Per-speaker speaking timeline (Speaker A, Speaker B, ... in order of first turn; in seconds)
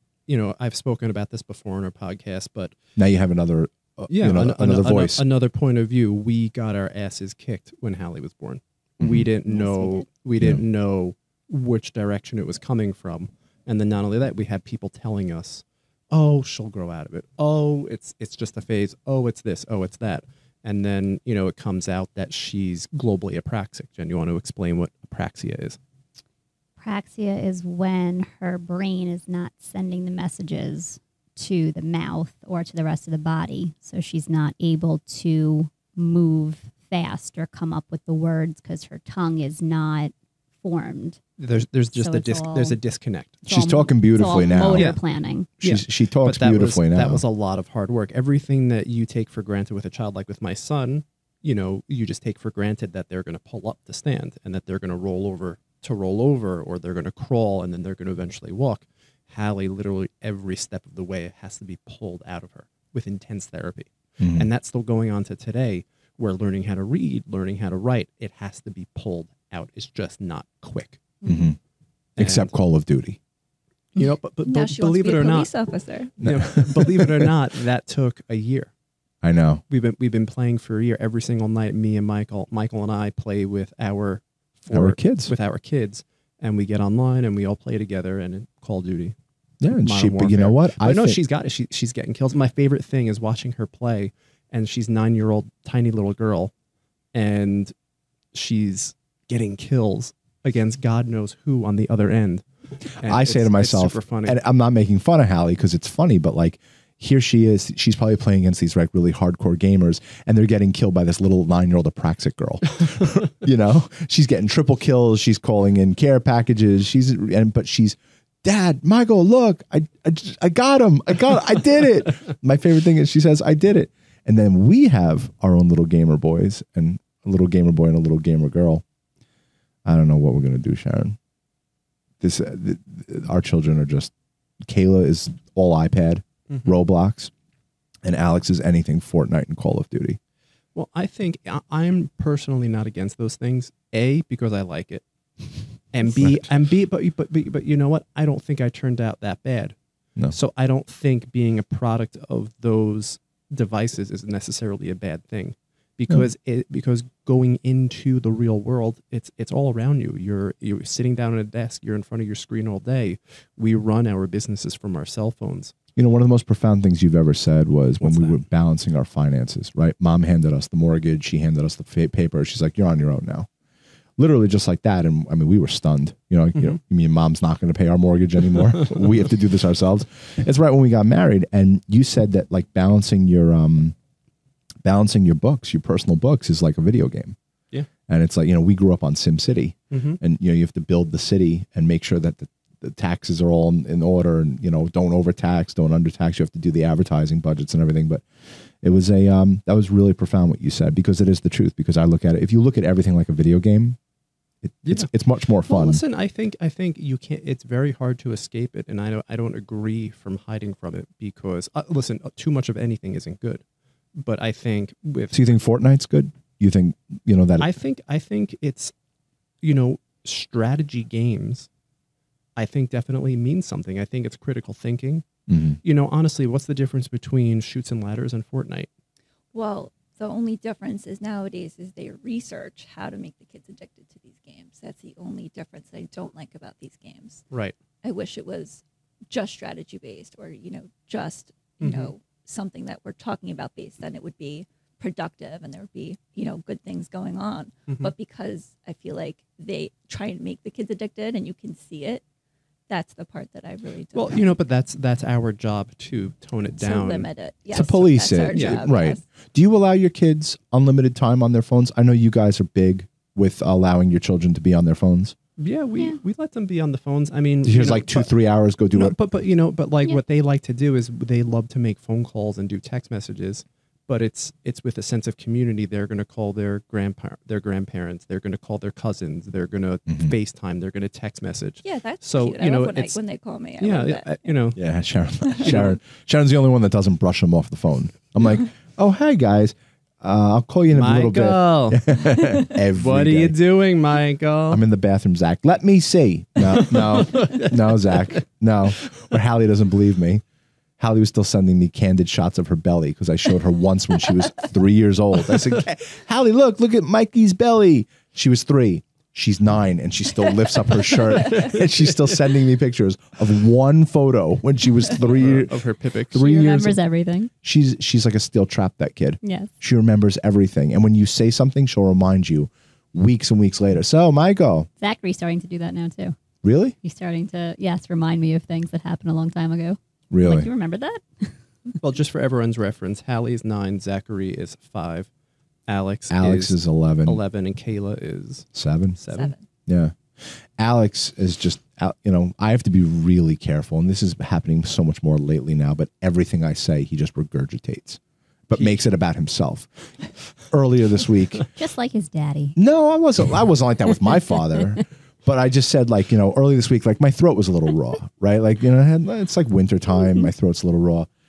Speaker A: 0.3-2.8, 4.1-25.8, 41.4-43.4, 44.7-45.0, 45.6-71.1, 72.2-72.5, 73.9-75.5, 76.2-78.7, 79.7-89.2, 89.7-96.5, 97.1-97.7, 98.3-102.4, 103.0-104.4, 140.7-145.0, 145.9-149.8, 150.3-165.7, 168.0-168.4, 189.9-190.2, 204.8-213.6, 214.1-215.6, 217.6-218.9, 219.6-221.7, 222.6-225.2, 225.8-228.9, 237.5-237.8, 241.8-242.1, 254.1-257.3, 258.5-258.8, 265.6-268.3, 268.9-283.2, 283.8-284.8, 285.6-286.0, 290.9-294.8, 296.6-298.4, 311.5-312.1, 315.2-317.0, 332.0-335.3, 335.9-339.5, 348.7-349.0
Speaker B: 3.0-5.2, 9.0-9.3, 43.5-45.0, 45.6-47.2, 64.2-64.5, 71.2-71.6, 72.2-73.2, 76.2-77.3, 79.2-79.6, 84.7-85.3, 89.6-91.2, 103.0-128.8, 129.8-131.2, 132.2-137.3, 138.0-140.2, 165.9-173.5, 174.2-183.9, 184.8-187.4, 188.1-204.0, 204.6-206.0, 215.3-217.7, 225.5-225.8, 257.7-265.3, 267.6-269.1, 280.1-280.3, 284.8-293.6, 294.7-300.4, 301.0-315.7, 317.6-324.9, 326.6-327.0, 330.3-330.7, 336.3-337.4, 338.7-339.2, 339.9-350.1, 350.7-351.7, 352.8-361.3
Speaker C: 9.4-10.1, 26.8-41.2, 42.0-42.8, 43.4-45.5, 71.2-71.5, 316.3-317.5, 319.4-319.7, 325.0-326.3, 327.0-331.5, 351.8-352.8
Speaker D: 74.4-76.1, 229.5-237.4, 238.0-252.2, 252.9-254.6, 256.8-259.2, 281.8-284.3, 339.3-339.6